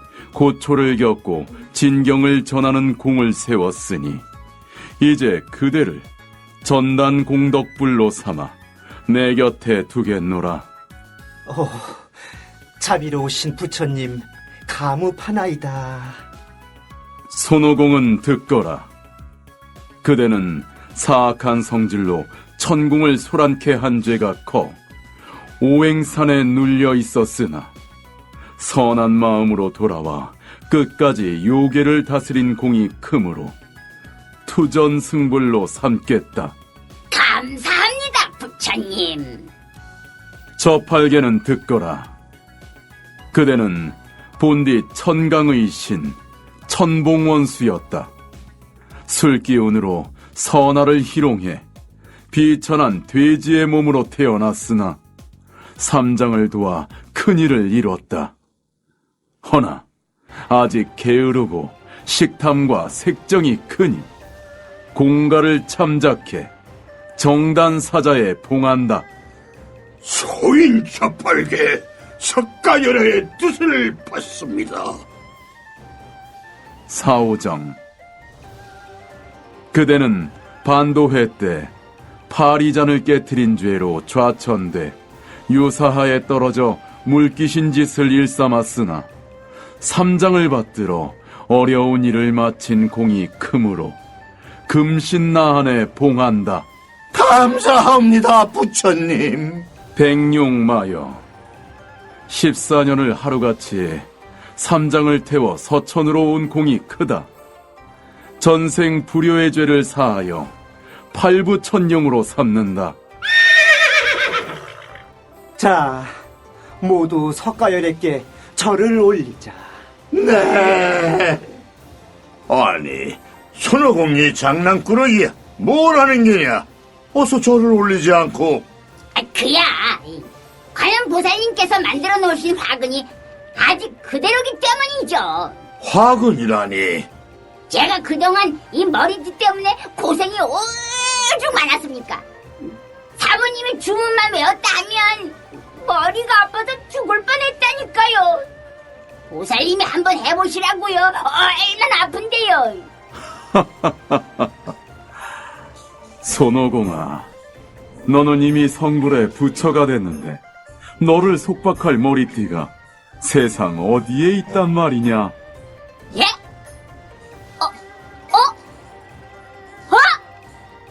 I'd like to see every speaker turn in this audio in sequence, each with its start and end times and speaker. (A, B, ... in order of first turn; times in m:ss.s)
0:00.3-0:04.2 A
0:05.0-0:06.1 A
0:06.6-0:10.7 A
0:11.4-0:12.1 B
0:12.8-0:16.2 B
0:17.3-0:18.9 A
0:20.0-0:24.8 A
0:25.6-0:27.7 A
0:28.6-0:33.5 A
0:34.4-0:36.5 A
0:37.1-0:39.5 C
0:40.6-0:42.1 A
0:43.3-0:48.1 A
0:49.1-0:51.6 A
0:52.3-0:55.0 A
0:55.8-0:58.3 A
0:59.4-0:59.8 A
1:00.5-1:04.1 A
1:04.9-1:06.5 A
1:07.2-1:09.0 A
1:10.0-1:14.9 D
1:16.9-1:17.8 A
1:19.7-1:21.7 A
1:22.3-1:25.0 A
1:25.5-1:29.1 A
1:29.8-1:34.0 A
1:34.7-1:36.7 A
1:37.1-1:39.6 D
1:39.9-1:41.2 A
1:42.3-1:47.3 A
1:48.4-1:50.5 A
1:51.1-1:53.0 A
1:55.6-1:56.1 B
1:56.8-1:59.7 B
2:00.1-2:01.4 D
2:02.5-2:08.6 D
2:09.1-2:15.5 C
2:15.8-2:17.1 D
2:17.7-2:22.2 C
2:23.2-2:28.4 C
2:29.3-2:32.9 C
2:33.5-2:34.2 A
2:36.2-2:37.3 A
2:38.0-2:40.4 A
2:41.0-2:45.3 A
2:49.9-2:50.2 C